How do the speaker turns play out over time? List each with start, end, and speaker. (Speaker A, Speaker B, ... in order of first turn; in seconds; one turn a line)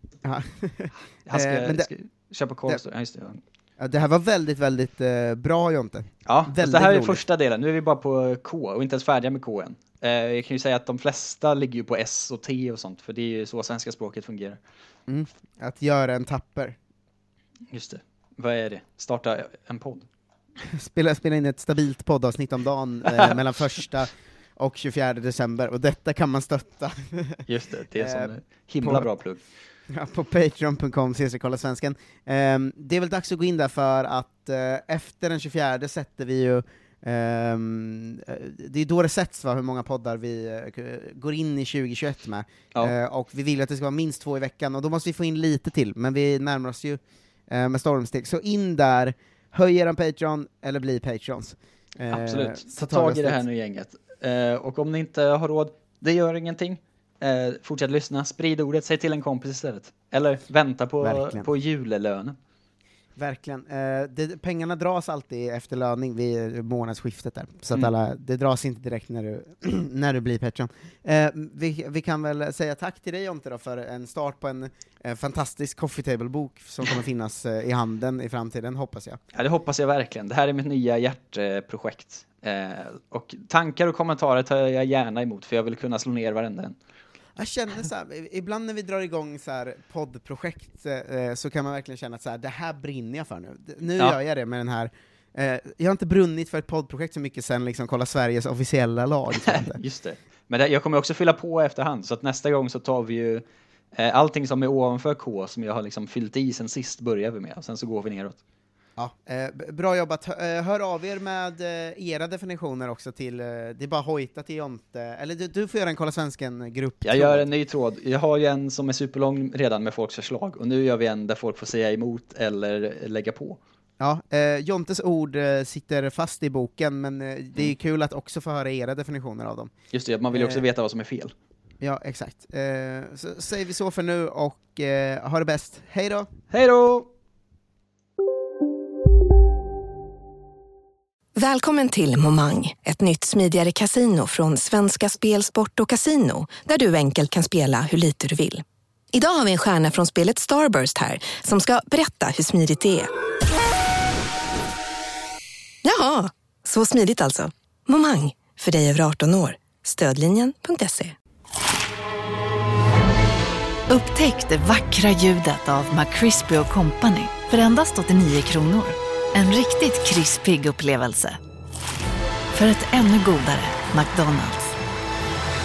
Speaker A: 0.2-1.9
Speaker B: 1.3-3.4
Speaker A: 3.8-7.2
Speaker B: 6.3-14.6
Speaker A: 15.1-16.8
Speaker B: 17.7-20.1
Speaker A: 20.6-29.1
Speaker B: 27.5-29.4
Speaker A: 29.9-53.4
Speaker B: 52.1-62.4
Speaker A: 61.0-61.5
Speaker A: 63.2-79.2
Speaker B: 79.3-86.8
Speaker A: 87.4-99.8
Speaker B: 99.5-108.4
Speaker A: 109.0-117.5
Speaker B: 117.0-123.6
Speaker A: 124.0-129.7
Speaker B: 129.9-131.3
Speaker A: 130.3-130.6
Speaker A: 131.8-136.3
Speaker B: 136.5-137.1
Speaker C: 141.4-153.1
Speaker C: 155.8-161.2
Speaker D: 163.9-171.4
Speaker D: 172.5-174.7